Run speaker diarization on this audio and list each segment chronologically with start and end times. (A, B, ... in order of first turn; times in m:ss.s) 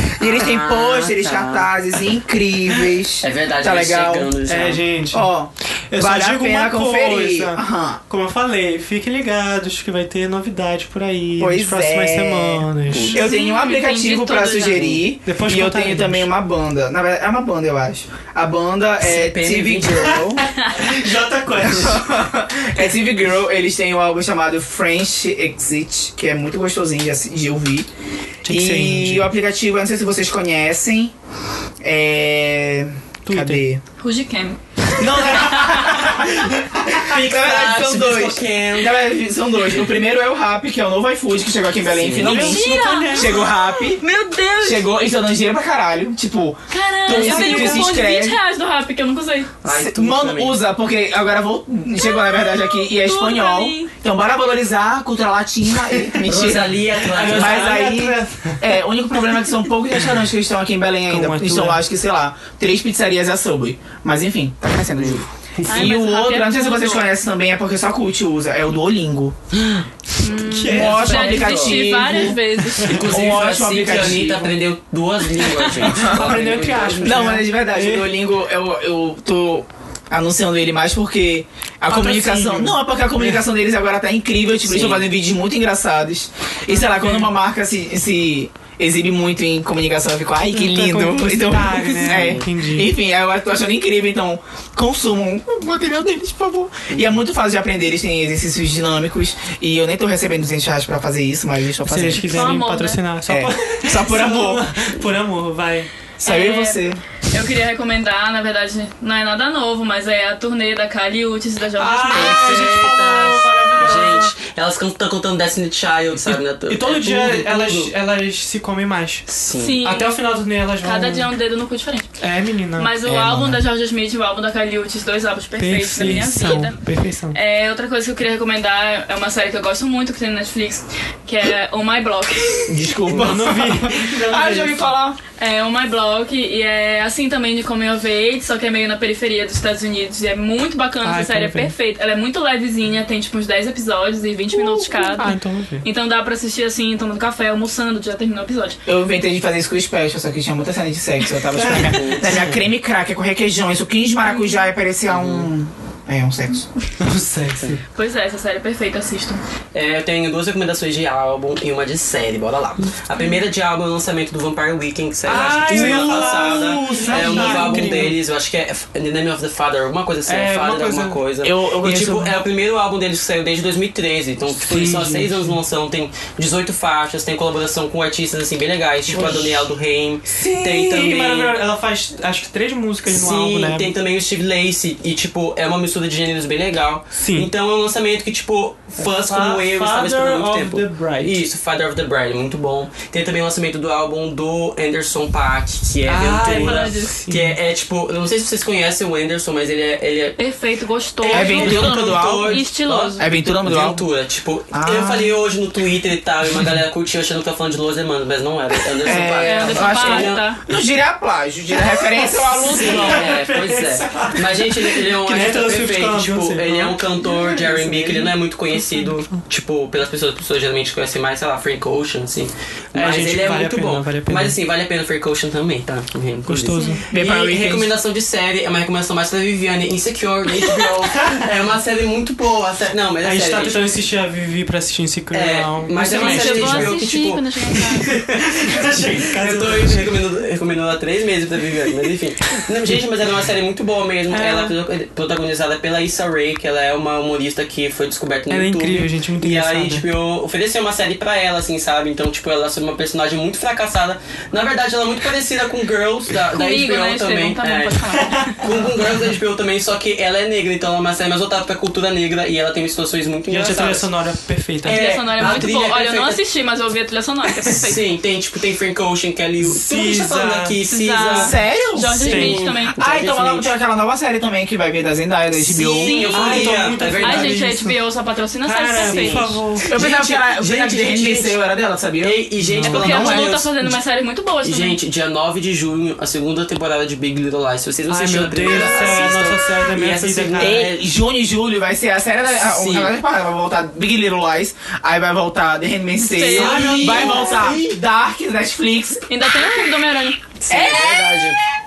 0:00.2-0:04.3 A
0:00.2-0:01.7 B
0:03.2-0:04.8 B
0:04.4-0:05.3 C
0:05.1-0:08.0 A
0:05.9-0:13.2 C
0:11.4-0:20.5 A
0:12.9-0:13.2 B
0:13.1-0:14.9 D
0:14.7-0:15.0 B
0:15.2-0:16.3 C
0:19.0-0:20.2 B
0:20.1-0:22.1 C
0:21.6-0:27.9 A
0:28.4-0:29.3 C
0:28.4-0:31.1 A
0:31.8-0:33.8 A
0:33.2-0:33.6 C
0:34.0-0:36.1 D
0:35.0-0:44.0 A
0:36.9-0:39.1 B
0:39.6-0:39.9 B
0:41.8-0:42.5 B
0:42.2-0:43.6 C
0:42.3-0:44.9 D
0:44.6-0:48.4 A
0:46.7-0:49.5 D
0:47.1-0:48.0 C
0:49.6-0:50.6 B
0:49.6-1:09.4 A
0:52.0-0:53.9 D
0:56.2-0:57.8 B
0:57.1-0:58.6 C
1:01.1-1:01.8 C
1:04.9-1:05.2 B
1:05.6-1:05.9 C
1:05.7-1:07.1 D
1:10.2-1:13.4 D
1:10.4-1:11.5 C
1:10.6-1:12.4 A
1:10.7-1:12.0 B
1:12.2-1:13.2 C
1:12.8-1:17.3 B
1:13.0-1:14.5 A
1:13.8-1:14.5 C
1:15.8-1:18.2 C
1:15.9-1:42.6 A
1:21.9-1:23.4 C
1:24.6-1:25.1 B
1:26.7-1:27.3 C
1:30.5-1:32.9 C
1:32.0-1:32.5 B
1:41.8-1:45.9 C
1:42.2-1:43.0 D
1:43.3-1:44.6 A
1:46.2-1:47.0 A
1:46.2-1:53.7 D
1:51.8-1:54.3 C
1:52.1-1:57.9 B
1:56.2-2:01.3 C
1:59.3-1:59.8 B
1:59.5-2:02.1 D
2:02.2-2:02.9 C
2:02.8-2:06.8 D
2:03.0-2:03.6 A
2:05.6-2:07.4 C
2:07.3-2:13.0 D
2:12.7-2:15.2 A
2:13.1-2:13.4 B
2:13.1-2:14.9 C
2:15.4-2:28.8 D
2:21.0-2:21.7 C
2:24.5-2:25.8 C
2:28.8-2:36.7 A
2:31.5-2:32.6 C
2:31.6-2:32.5 B
2:34.3-2:34.6 D
2:35.1-2:35.5 B
2:37.0-2:37.8 C
2:37.9-2:39.4 D
2:39.7-3:01.5 B
2:43.1-2:43.4 D
2:45.2-2:48.2 C
2:45.7-2:46.3 A
2:46.5-2:47.8 D
2:50.2-2:51.2 C
2:51.4-2:52.4 A
2:54.5-2:55.6 C
2:59.1-2:59.6 C
3:00.4-3:03.9 C
3:03.0-3:20.4 B
3:07.1-3:07.5 C
3:09.0-3:11.3 C
3:16.0-3:17.6 C
3:16.4-3:17.2 D
3:20.4-3:23.3 D
3:21.2-3:30.5 B
3:21.3-3:24.0 A
3:24.7-3:25.4 A
3:29.0-3:33.3 A
3:29.4-3:30.6 D
3:31.9-3:39.4 C
3:32.5-3:33.2 D
3:32.6-3:53.9 B
3:42.9-3:44.6 C
3:46.5-3:47.0 C
3:46.7-3:47.0 D
3:47.1-3:47.9 A
3:53.2-3:57.0 C
3:55.3-3:57.4 B
3:56.0-3:58.1 D
3:57.7-4:00.1 C
3:58.7-4:24.1 B
4:04.3-4:04.7 C
4:08.5-4:10.0 C
4:16.5-4:18.6 D
4:18.1-4:19.3 C
4:23.5-4:25.7 C
4:24.8-4:26.4 B
4:24.8-4:28.1 D
4:27.7-4:31.6 B
4:29.6-4:30.8 C
4:30.9-4:32.9 D
4:31.3-4:32.3 A
4:32.2-4:32.8 C
4:32.3-4:33.7 B
4:32.9-4:36.3 A
4:35.7-4:37.6 B
4:35.7-4:39.5 D
4:36.3-4:38.0 C
4:38.6-4:39.9 C
4:39.0-4:41.6 B
4:39.8-4:43.5 A
4:42.2-4:43.9 B
4:42.6-4:43.4 C
4:42.9-4:45.0 D
4:44.6-4:51.0 B
4:48.1-4:50.8 C
4:48.6-4:49.3 A
4:50.6-4:59.2 A
4:52.6-4:53.1 B
4:56.3-4:57.1 D
4:56.4-4:58.0 B
4:56.5-4:57.7 C
4:59.3-5:00.4 D
5:00.6-5:01.6 B
5:00.7-5:01.6 A